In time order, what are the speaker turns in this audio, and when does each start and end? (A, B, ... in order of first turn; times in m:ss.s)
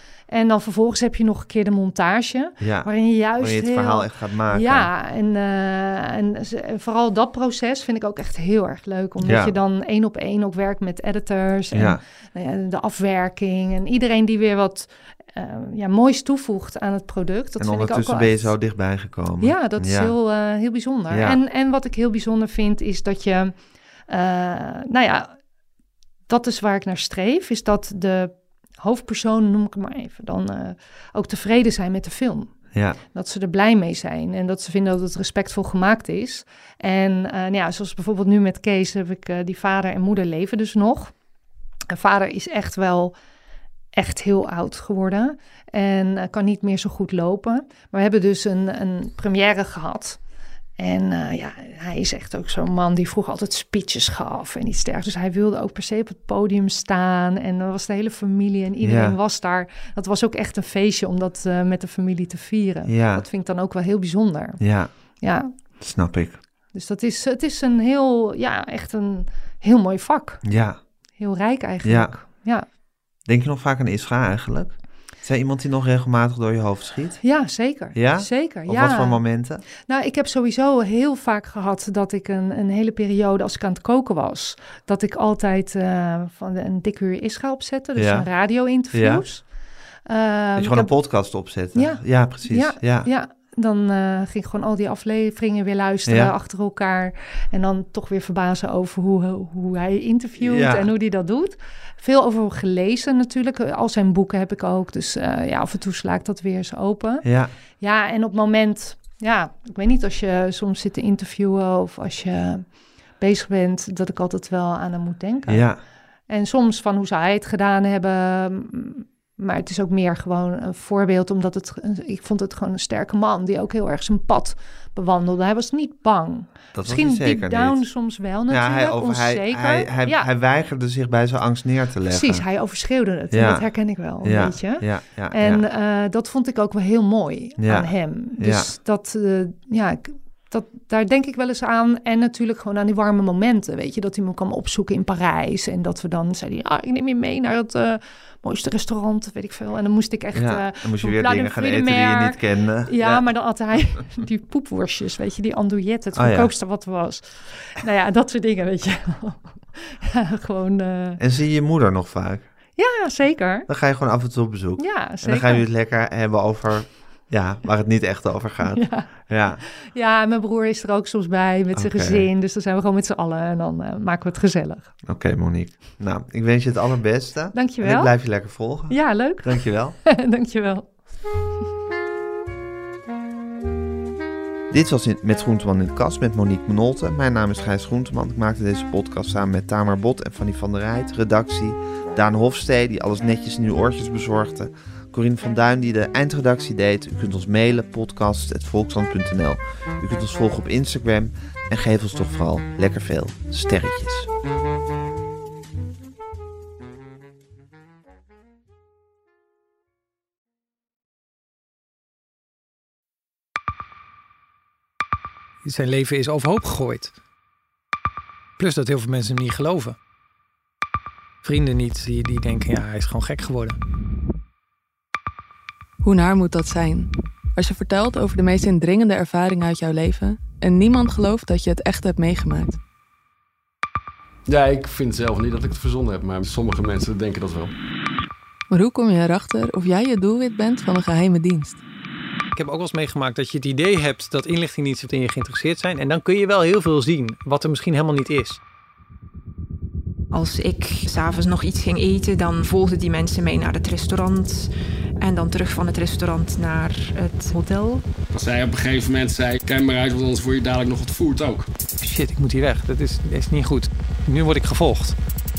0:00.3-0:18.5 A
0:02.6-0:04.9 B
0:09.2-0:09.6 B
0:11.7-0:12.0 B
0:17.6-0:20.1 B
0:19.4-0:23.5 A
0:21.1-0:21.4 B
0:24.1-0:25.4 A
0:26.3-0:32.6 A
0:32.7-0:33.0 B
0:33.1-0:41.1 A
0:41.9-0:43.1 A
0:43.9-0:50.2 A
0:50.8-1:04.6 A
0:58.8-0:59.2 B
1:02.9-1:03.2 B
1:04.6-1:04.9 B
1:05.2-1:05.5 A
1:05.8-1:06.4 B
1:06.7-1:10.4 A
1:10.4-1:10.8 B
1:11.2-1:12.7 A
1:11.8-1:12.1 B
1:13.3-1:17.2 B
1:17.2-1:19.2 A
1:17.9-1:19.6 B
1:19.8-1:29.5 A
1:28.0-1:28.3 B
1:28.9-1:29.2 B
1:30.1-1:30.9 A
1:30.6-1:33.1 B
1:31.7-1:47.3 A
1:36.1-1:36.3 B
1:40.4-1:40.9 B
1:47.2-1:47.5 B
1:47.8-1:55.7 A
1:55.5-1:55.8 B
1:56.3-2:10.3 A
2:06.7-2:07.9 B
2:08.5-2:12.5 B
2:12.1-2:41.2 A
2:13.3-2:13.7 B
2:14.2-2:15.6 B
2:17.6-2:18.7 B
2:30.4-2:33.3 B
2:36.2-2:36.5 B
2:41.2-2:42.5 B
2:42.8-2:43.7 A
2:43.7-2:49.6 B
2:44.8-2:45.7 A
2:48.6-2:54.9 A
2:51.8-2:52.3 B
2:55.0-3:00.0 B
2:57.5-2:58.1 A
2:58.9-3:00.9 A
3:04.7-3:24.3 B
3:35.6-3:37.1 C
3:38.6-3:40.0 C
3:41.4-3:43.8 C
3:46.0-3:52.8 D
3:54.5-3:57.8 E
3:58.7-4:01.8 D
4:02.5-4:08.6 C
4:10.3-4:14.7 F
4:15.2-4:18.0 F
4:18.3-4:21.7 E
4:22.0-4:25.2 C